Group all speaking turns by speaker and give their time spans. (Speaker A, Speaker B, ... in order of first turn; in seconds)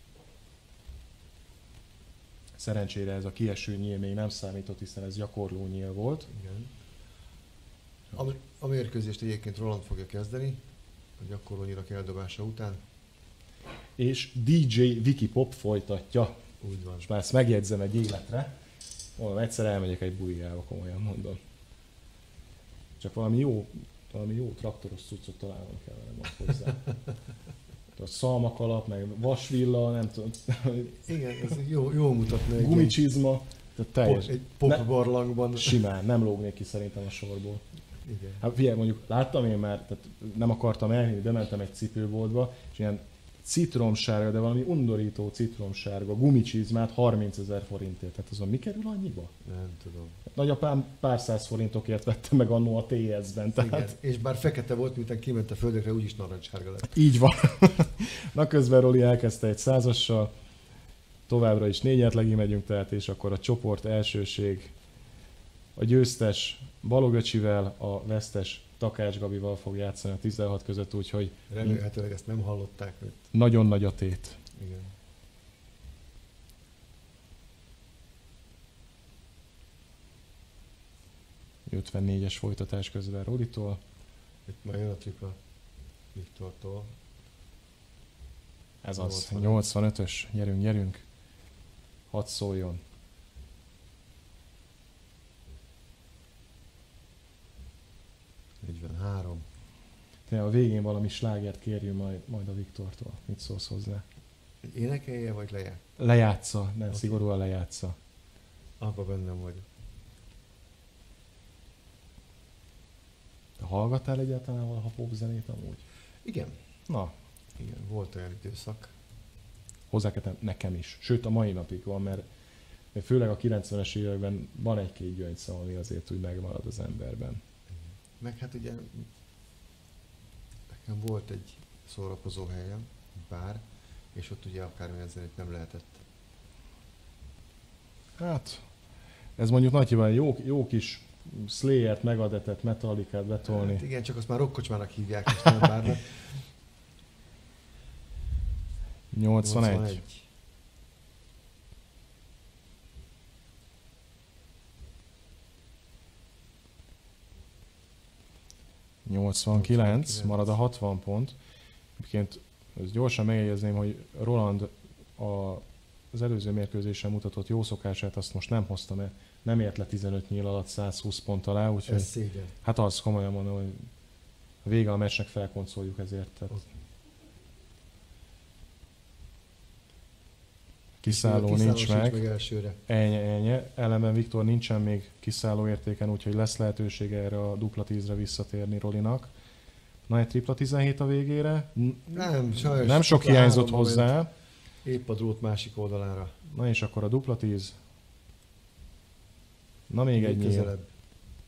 Speaker A: 2.6-6.3, 14.0-16.4, 17.0-18.5, 19.2-21.4, 23.0-26.8, 28.0-31.5, 32.5-34.8, 35.5-37.6, 38.4-49.3, 50.3-53.9, 57.0-60.3, 61.3-64.7, 65.8-71.8, 73.3-74.4, 81.7-83.8, 88.8-91.0, 92.1-92.8, 100.3-104.0, 106.0-108.0, 113.6-115.8, 116.9-117.1, 119.9-122.3, 122.9-127.4, 138.2-138.7, 139.4-143.8, 149.1-150.0, 159.1-161.4, 162.0-172.1, 172.6-173.9, 174.6-176.7, 181.0-182.2, 182.9-189.3, 190.1-194.3, 196.5-197.8, 199.9-200.7
Speaker B: 6.3-6.7, 8.1-10.6, 11.2-12.8, 16.6-17.1, 30.9-33.0, 34.0-35.8, 38.0-38.5, 49.4-50.2, 53.5-57.0, 71.5-73.3, 74.5-74.9, 84.5-85.4, 86.1-86.9, 89.0-89.6, 98.6-99.5, 104.6-105.8, 106.9-107.2, 108.8-109.7, 116.2-116.6, 117.6-118.9, 127.7-129.1, 130.7-136.0, 143.5-146.4, 149.4-150.3, 159.5-160.6, 171.8-172.5, 181.1-182.8, 192.1-194.1, 194.8-196.4, 200.2-200.9